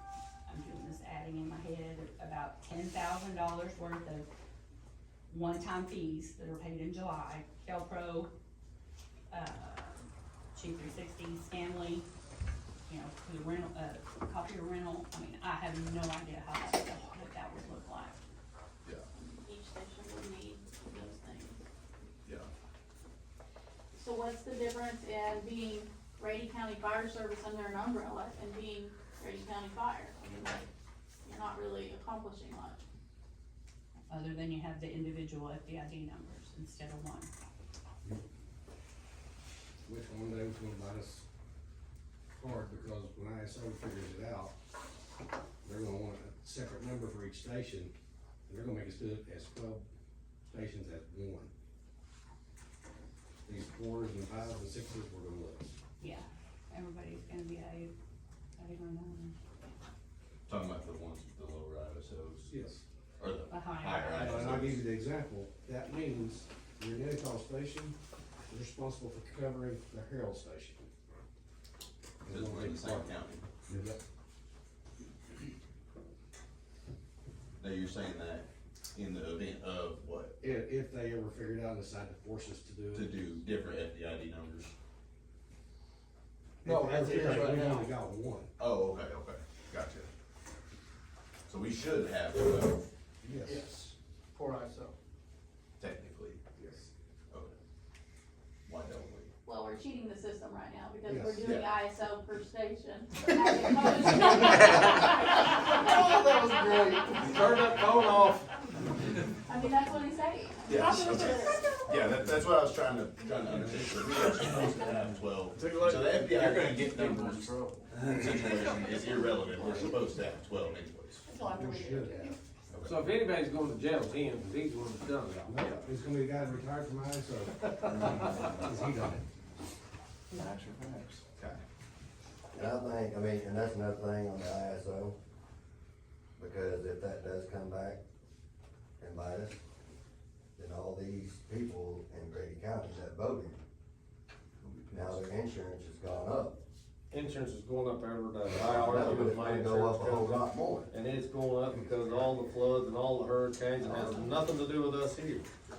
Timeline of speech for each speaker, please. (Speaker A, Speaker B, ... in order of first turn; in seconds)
Speaker A: 0.5-4.3, 5.3-8.3, 9.3-12.1, 12.9-18.2, 34.1-37.3, 56.0-57.9, 58.6-59.3, 63.5-64.4, 121.2-122.3
Speaker B: 19.2-21.6, 23.9-30.7, 31.2-32.8, 99.5-107.3, 109.5-111.9
Speaker C: 22.2-22.5, 60.5-62.5, 63.2-64.8, 72.3-73.4, 77.6-80.4, 82.9-84.7, 88.6-90.1, 91.5-92.8, 95.8-96.4, 98.7-99.3, 101.4-101.8, 110.7-121.3, 122.7-123.0, 131.4-131.6, 144.6-145.3
Speaker D: 39.9-41.2, 42.4-44.5, 45.6-47.9, 48.5-49.9, 50.5-51.5, 53.5-55.7, 62.5-62.8, 64.1-68.0, 68.5-70.9, 72.2-73.1, 73.7-74.0, 80.4-83.2, 86.6-88.5, 93.2-93.9, 96.6-96.9, 101.1-101.5, 121.5-122.3, 125.5-129.2
Speaker E: 86.7-87.9, 93.4-95.0, 115.6-115.9
Speaker F: 87.0-87.7, 104.5-104.8, 105.6-108.5, 122.8-125.6, 147.1-155.5
Speaker G: 132.5-135.2, 136.4-138.0, 139.0-139.6, 140.6-143.6, 144.9-146.6, 148.4-150.9, 153.8-154.2